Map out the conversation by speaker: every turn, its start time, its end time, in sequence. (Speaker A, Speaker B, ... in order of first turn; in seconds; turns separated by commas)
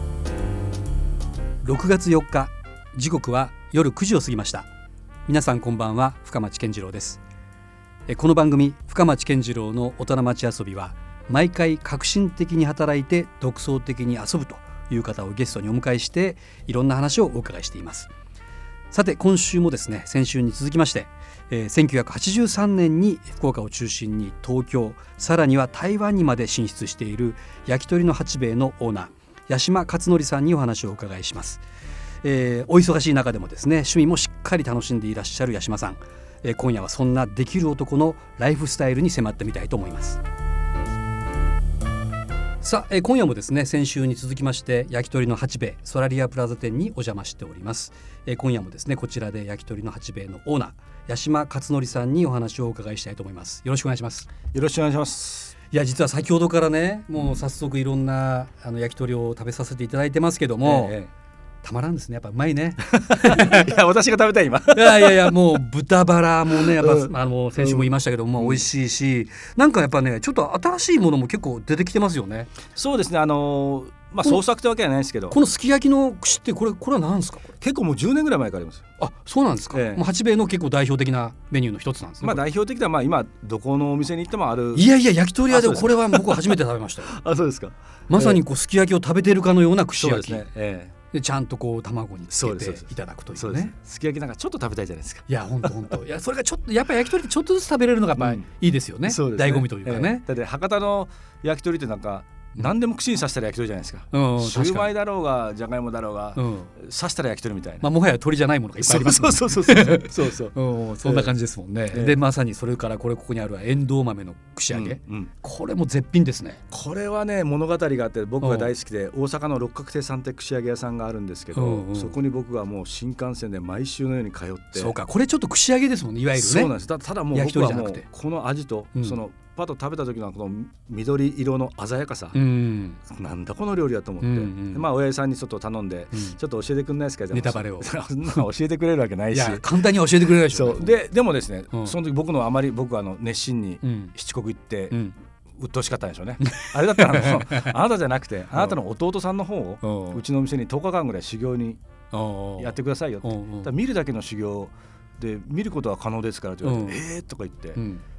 Speaker A: 1.6-4.7, Speaker A: 5.2-7.2, Speaker A: 8.1-18.1, Speaker A: 18.9-31.6, Speaker A: 32.2-40.2, Speaker A: 42.6-54.3, Speaker B: 54.5-55.5, Speaker A: 55.7-61.0, Speaker B: 60.6-61.1, Speaker A: 61.6-63.7, Speaker B: 62.8-65.4, Speaker A: 64.7-72.5, Speaker B: 66.5-68.7, Speaker B: 72.7-75.4, Speaker A: 75.3-77.5, Speaker B: 77.6-78.8, Speaker A: 79.0-82.4, Speaker B: 79.7-80.0, Speaker B: 82.2-84.9, Speaker A: 84.7-87.1, Speaker B: 85.5-88.4, Speaker A: 88.1-90.5, Speaker B: 89.9-90.9, Speaker A: 91.1-93.7, Speaker B: 92.3-95.8, Speaker A: 95.3-100.2, Speaker B: 98.2-98.5, Speaker B: 99.0-107.9, Speaker A: 104.1-104.9, Speaker A: 106.3-106.7, Speaker A: 107.8-116.6, Speaker B: 108.8-111.3, Speaker B: 111.9-112.2, Speaker B: 114.7-115.3, Speaker B: 116.7-124.9, Speaker A: 118.4-118.7, Speaker A: 121.5-122.2, Speaker A: 124.8-126.7, Speaker B: 126.3-132.4, Speaker A: 127.3-128.0, Speaker A: 132.3-133.0, Speaker B: 133.1-139.8, Speaker A: 134.2-134.9, Speaker A: 137.3-138.4, Speaker A: 139.3-140.9, Speaker B: 140.4-145.0, Speaker A: 143.8-144.1, Speaker B: 145.6-151.8, Speaker A: 146.4-147.7, Speaker A: 149.8-150.2, Speaker A: 152.1-153.7, Speaker B: 152.6-157.8, Speaker A: 156.6-157.0, Speaker A: 157.7-158.0